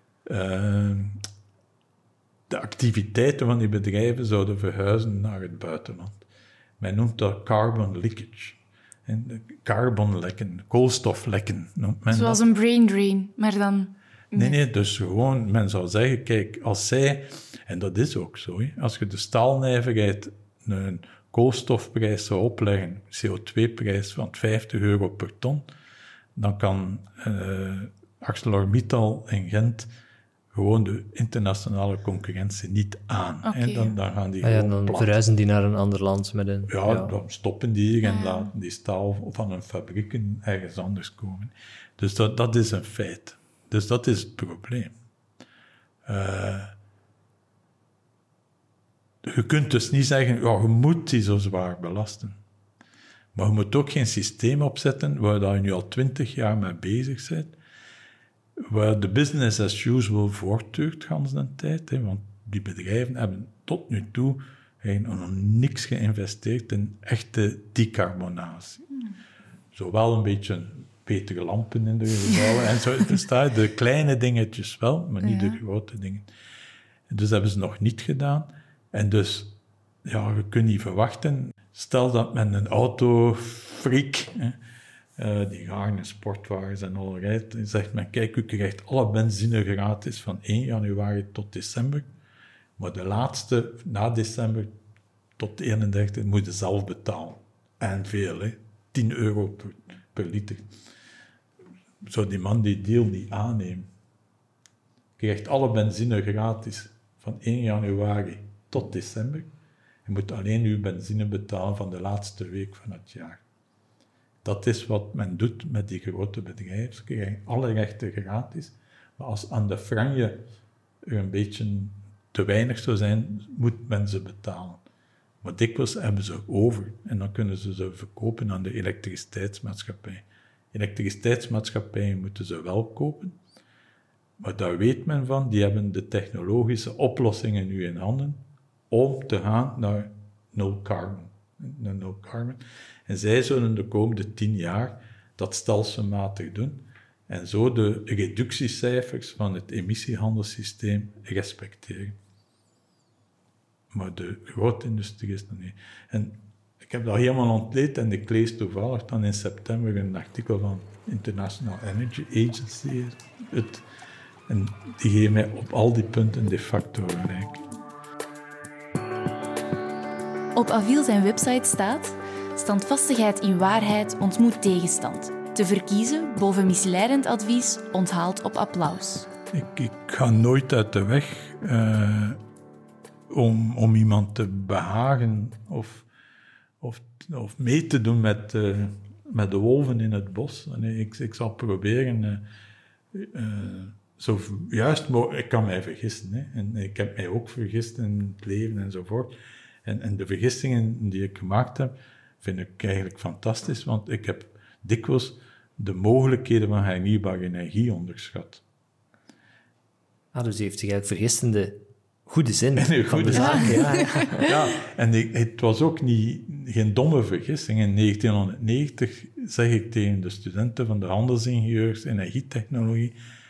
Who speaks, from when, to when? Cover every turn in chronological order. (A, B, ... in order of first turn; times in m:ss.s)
0:00.2-0:01.2 A
0:02.5-0:06.2 A
0:06.8-0:12.4 A
0:12.1-0:14.6 B
0:14.3-0:25.6 A
0:26.4-0:29.9 A
0:30.5-0:35.2 A
0:33.4-0:33.9 B
0:34.4-0:37.1 C
0:36.7-0:44.9 A
0:38.0-0:38.5 B
0:46.0-0:46.7 A
0:49.2-0:52.4 A
0:53.3-0:57.5 A
0:58.7-1:08.9 A
1:09.7-1:16.3 A
1:15.2-1:15.6 B
1:17.1-1:24.6 A
1:25.2-1:32.1 A
1:32.8-1:34.7 A
1:35.4-1:40.7 A
1:42.0-1:43.9 A
1:45.2-1:49.5 A
1:50.0-1:53.4 A
1:54.4-2:00.4 A
2:01.0-2:04.8 A
2:05.4-2:13.4 A
2:14.4-2:32.2 A
2:33.9-2:43.8 A
2:44.5-2:47.6 A
2:50.5-2:59.3 B
2:59.5-3:02.4 A
3:03.3-3:06.1 A
3:06.8-3:12.4 A
3:13.1-3:19.3 A
3:19.8-3:28.6 A
3:30.3-3:34.5 C
3:32.8-3:43.1 A
3:33.3-3:34.2 B